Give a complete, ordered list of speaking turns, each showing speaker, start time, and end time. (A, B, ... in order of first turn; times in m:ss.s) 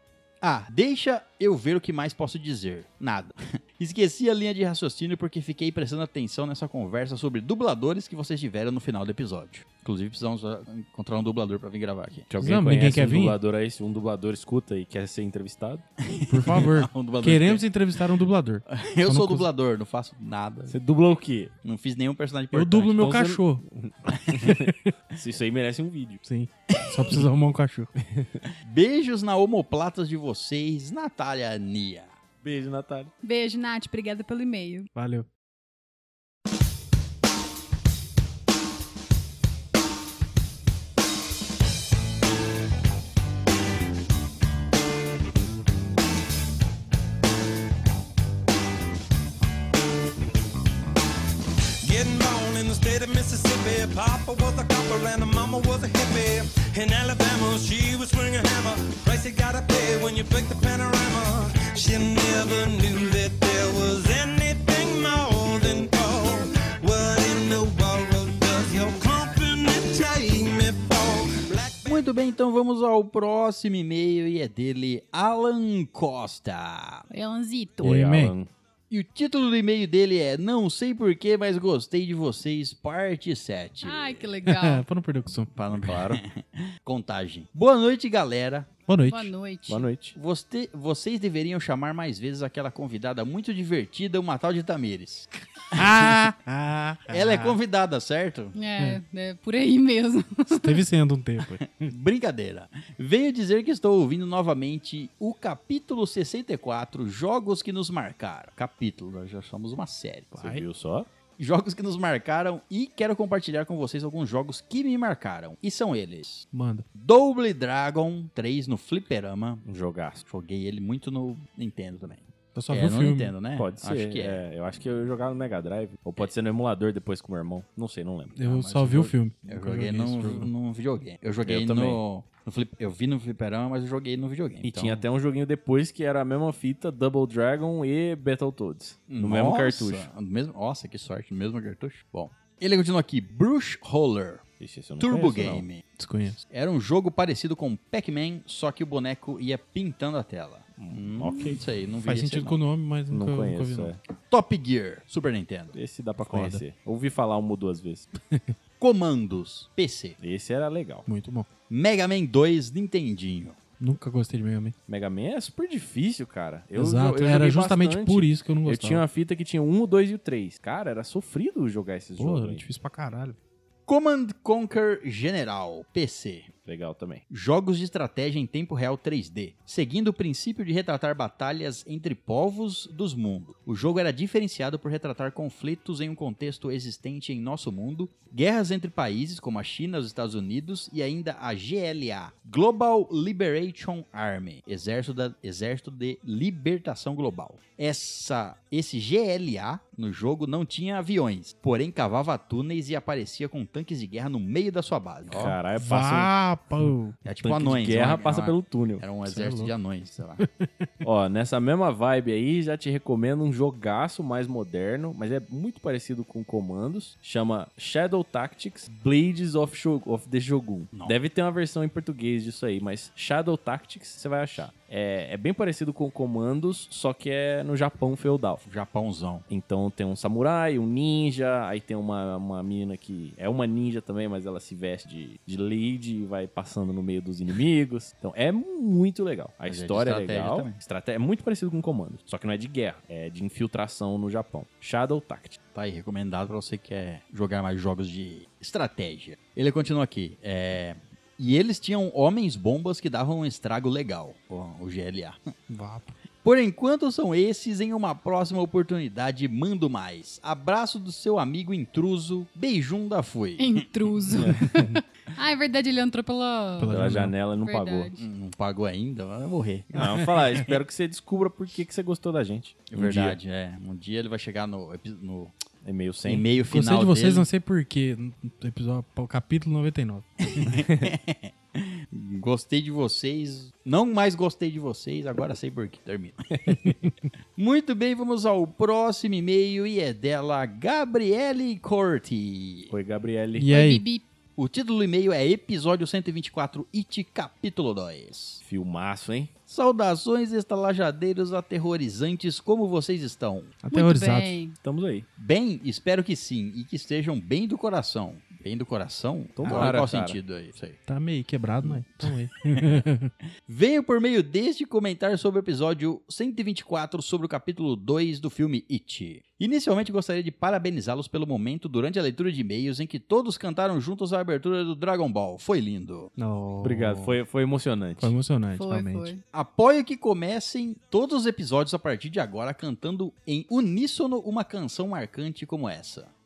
0:00.4-0:12.3 A
0:12.3-0:15.8 B
0:12.4-0:13.4 C
0:16.0-0:17.6 A
0:16.3-0:19.4 C
0:18.7-0:20.8 A
0:20.7-0:21.5 B
0:21.6-0:23.2 A
0:22.5-0:23.6 C
0:23.0-0:26.2 B
0:24.2-0:24.5 A
0:26.2-0:27.9 C
0:26.9-0:27.2 A
0:28.1-0:28.4 B
0:28.6-0:32.1 A
0:32.4-0:33.1 B
0:33.2-0:34.9 D
0:34.9-0:35.2 C
0:51.8-1:12.0 E
1:11.8-1:17.1 A
1:17.1-1:17.9 D
1:17.8-1:18.5 B
1:17.8-1:18.3 C
1:18.9-1:24.3 A
1:23.8-1:24.8 D
1:24.4-1:25.5 C
1:25.5-1:28.7 A
1:25.8-1:26.2 B
1:28.9-1:29.3 C
1:29.0-1:29.9 D
1:29.7-1:30.1 B
1:30.1-1:36.1 A
1:35.7-1:37.6 C
1:37.1-1:38.5 A
1:38.5-1:40.8 D
1:40.6-1:41.9 C
1:41.8-1:50.5 A
1:50.3-1:51.1 B
1:51.4-1:59.6 A
1:56.5-1:56.9 C
1:59.6-2:00.2 B
2:00.2-2:04.4 A
2:02.5-2:03.3 C
2:03.6-2:08.4 B
2:08.3-2:10.5 C
2:08.4-2:15.0 A
2:11.4-2:12.0 B
2:14.6-2:20.1 B
2:19.1-2:24.4 A
2:24.6-2:25.6 B
2:25.0-2:25.8 A
2:26.0-2:26.4 C
2:26.5-2:32.6 A
2:30.8-2:31.6 B
2:32.0-2:33.9 C
2:33.1-2:34.0 B
2:34.3-2:35.8 A
2:35.7-2:38.1 B
2:36.3-2:36.6 C
2:38.8-2:40.2 A
2:40.2-2:41.1 B
2:41.1-2:41.5 C
2:41.7-2:43.6 A
2:43.8-2:44.7 C
2:44.9-2:52.6 B
2:46.7-2:49.0 C
2:52.2-2:53.4 C
2:53.9-2:56.5 A
2:56.6-2:57.2 B
2:57.3-3:25.6 A
3:25.3-3:26.3 B
3:25.7-3:27.2 C
3:27.2-3:30.4 A
3:27.4-3:29.0 B
3:29.2-3:29.7 C
3:31.0-3:48.6 B
3:48.6-3:49.4 A
3:49.5-4:05.6 B
3:59.7-4:00.8 A
4:05.7-4:15.5 A
4:15.7-4:16.1 C
4:16.4-4:23.9 A
4:23.6-4:28.2 D
4:24.7-4:25.0 C
4:26.8-4:27.3 C
4:26.9-4:28.1 B
4:28.2-4:30.8 A
4:29.9-4:33.4 B
4:32.9-4:35.5 A
4:35.8-4:36.4 B
4:36.2-4:37.5 A
4:36.6-4:40.3 C
4:40.5-4:46.8 A
4:47.6-4:52.9 A
4:52.9-4:53.7 B
4:53.6-4:54.0 C
4:53.7-4:54.2 D
4:54.6-4:58.6 A
4:58.6-4:59.5 B
4:59.7-5:03.7 A
5:03.8-5:04.6 C
5:03.9-5:04.8 D
5:04.8-5:05.3 B
5:05.4-5:11.0 A
5:09.6-5:10.4 B
5:09.6-5:10.0 C
5:11.0-5:13.3 C
5:11.8-5:13.0 A
5:13.6-5:26.3 A
5:26.4-5:27.4 C
5:26.8-5:28.3 B
5:28.2-5:29.3 C
5:28.8-5:29.4 D
5:29.5-5:36.3 A